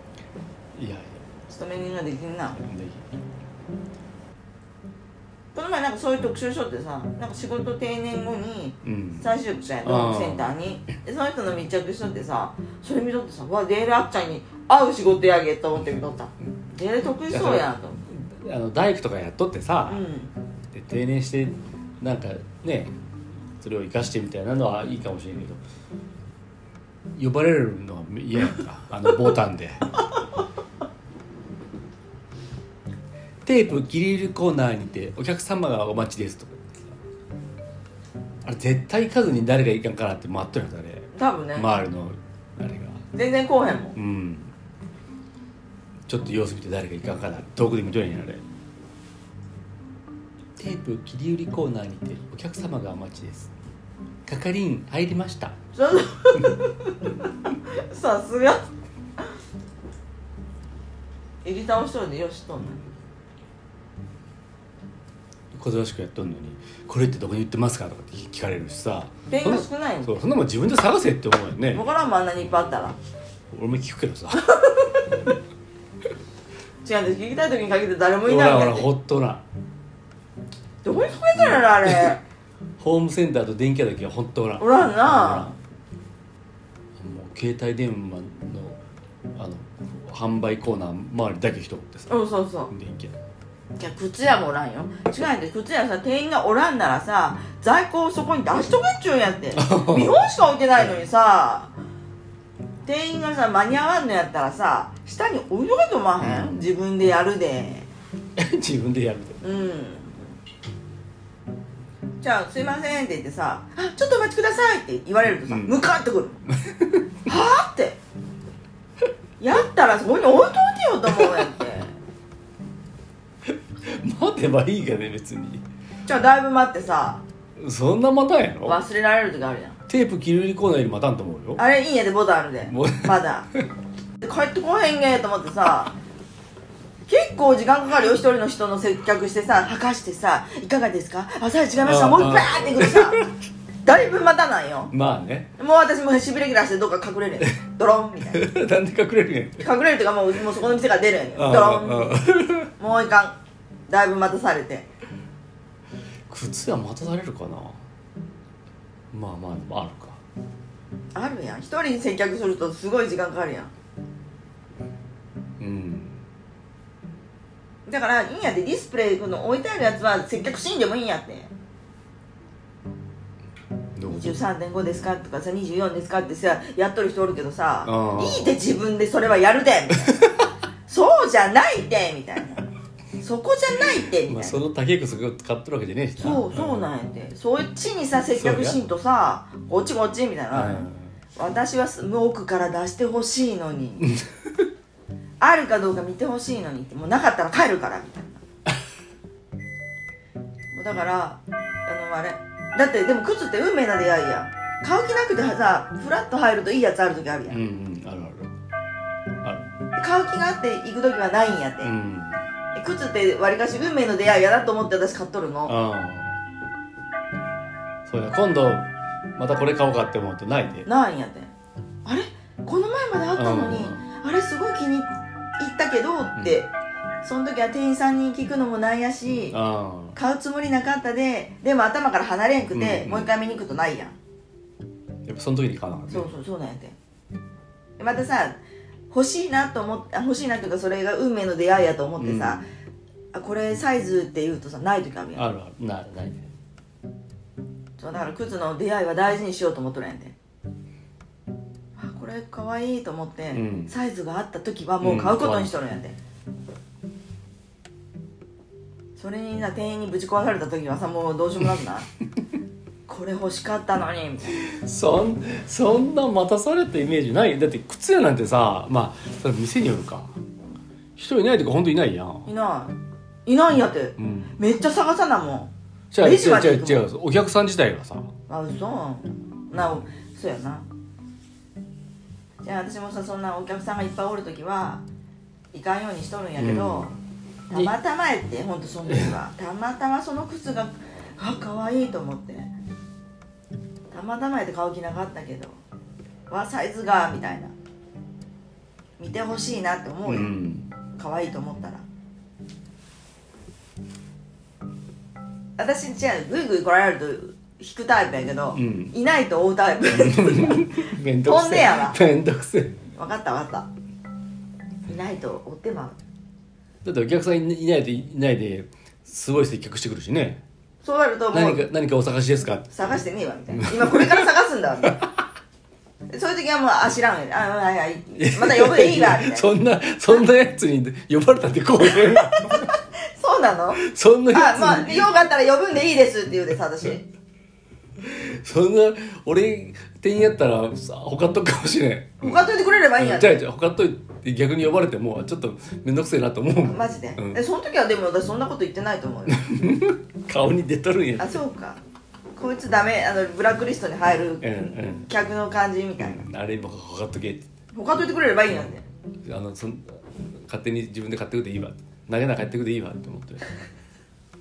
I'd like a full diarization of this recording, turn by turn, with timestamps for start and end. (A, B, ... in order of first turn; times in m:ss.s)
0:00.8-0:01.2 A
0:01.5-0:02.6 B
0:02.6-0:03.0 A
0:05.5-0:18.0 B
0:08.8-0:09.3 A
0:09.8-0:10.5 A
0:17.3-0:20.0 A
0:19.9-0:20.3 B
0:20.7-0:22.9 A
0:23.6-0:25.6 A
0:27.1-0:29.9 A
0:33.4-0:37.0 A
0:38.4-0:43.0 A
0:41.1-0:41.7 B
0:43.1-0:44.0 B
0:44.0-0:44.5 A
0:46.1-0:48.4 A
0:50.6-0:53.5 A
0:54.3-0:55.6 A
0:55.8-0:58.7 B
1:01.4-1:02.8 B
1:05.5-1:11.9 A
1:09.3-1:10.1 B
1:11.7-1:13.0 B
1:13.5-1:14.5 A
1:14.4-1:15.2 B
1:16.8-1:18.9 B
1:18.3-1:19.4 A
1:20.8-1:22.2 B
1:21.4-1:22.2 A
1:22.8-1:25.6 A
1:24.6-1:25.6 B
1:27.0-1:28.8 A
1:29.4-1:32.2 A
1:32.1-1:32.7 B
1:32.7-1:33.1 A
1:33.8-1:41.7 B
1:39.6-1:41.0 A
1:42.8-1:47.9 B
1:46.2-1:46.7 A
1:48.4-1:49.4 A
1:49.4-1:50.3 B
1:52.2-1:56.4 B
1:55.4-1:55.8 A
1:56.5-1:57.0 A
1:57.3-1:58.0 B
1:59.4-2:02.0 B
2:03.8-2:05.6 A
2:06.1-2:07.2 B
2:07.6-2:08.8 A
2:08.6-2:09.8 B
2:09.9-2:11.6 A
2:11.6-2:13.5 B
2:12.7-2:13.1 A
2:14.2-2:15.9 B
2:17.1-2:23.2 B
2:21.8-2:23.3 A
2:23.8-2:24.9 B
2:24.9-2:25.5 A
2:25.6-2:28.4 B
2:28.3-2:29.7 A
2:29.6-2:32.2 B
2:31.4-2:32.7 A
2:32.8-2:33.4 B
2:33.9-2:34.9 B
2:36.3-2:37.8 A
2:39.1-2:40.2 A
2:41.2-2:43.7 B
2:45.6-2:46.2 A
2:47.9-2:51.5 B
2:54.0-2:54.4 A
2:54.1-3:00.2 B
2:57.8-2:58.6 A
3:00.9-3:02.7 B
3:03.2-3:04.6 B
3:04.2-3:06.9 A
3:06.2-3:14.1 B
3:08.3-3:08.8 A
3:10.5-3:11.1 A
3:14.0-3:14.6 A
3:15.4-3:18.4 B
3:20.7-3:27.6 B
3:27.5-3:28.5 A
3:29.4-3:29.8 A
3:30.0-3:31.9 B
3:31.8-3:32.4 A
3:32.8-3:35.8 B
3:35.7-3:36.4 A
3:38.1-3:40.9 A
3:40.9-3:41.5 B
3:42.0-3:46.7 B
3:43.4-3:44.0 A
3:46.4-3:46.6 A
3:47.2-3:49.6 B
3:49.5-3:50.2 A
3:50.2-3:54.2 B
3:52.7-3:53.3 A
3:55.2-3:56.3 A
3:56.1-3:57.0 B
3:58.0-3:58.6 B
3:59.1-4:02.7 B
4:02.2-4:02.6 A
4:03.3-4:05.5 B
4:05.4-4:06.5 A
4:08.0-4:10.4 B
4:12.0-4:16.2 B
4:13.5-4:13.9 A
4:15.0-4:15.7 A
4:19.2-4:22.1 B
4:23.1-4:24.6 B
4:24.6-4:30.4 A
4:31.2-4:32.5 A
4:32.4-4:37.1 B
4:34.2-4:34.5 A
4:36.1-4:38.3 A
4:38.5-4:40.9 B
4:42.6-4:45.0 B
4:45.7-4:47.1 B
4:46.6-4:47.2 A
4:47.7-4:52.7 B
4:54.1-4:55.8 B
4:56.5-4:57.7 B
4:59.2-5:00.5 B
5:00.3-5:00.9 A
5:01.2-5:02.0 B
5:05.8-5:12.2 B
5:08.7-5:09.2 A
5:10.1-5:13.0 A
5:13.1-5:13.9 B
5:15.1-5:16.2 B
5:17.0-5:20.6 A
5:21.0-5:21.9 B
5:21.5-5:22.9 A
5:22.9-5:25.2 B
5:23.8-5:24.5 A
5:26.3-5:29.7 B
5:28.4-5:32.9 A
5:32.0-5:34.0 B
5:34.0-5:35.3 A
5:34.5-5:37.3 B
5:38.2-5:42.7 A
5:42.4-5:43.6 B
5:43.2-5:47.6 A
5:46.8-5:49.6 B
5:49.5-5:51.6 A
5:51.4-5:52.0 B
5:52.6-5:54.7 B
5:54.6-5:55.3 A
5:55.3-5:56.4 B
5:56.2-5:57.7 A
5:57.9-5:59.0 B
5:59.4-6:03.7 A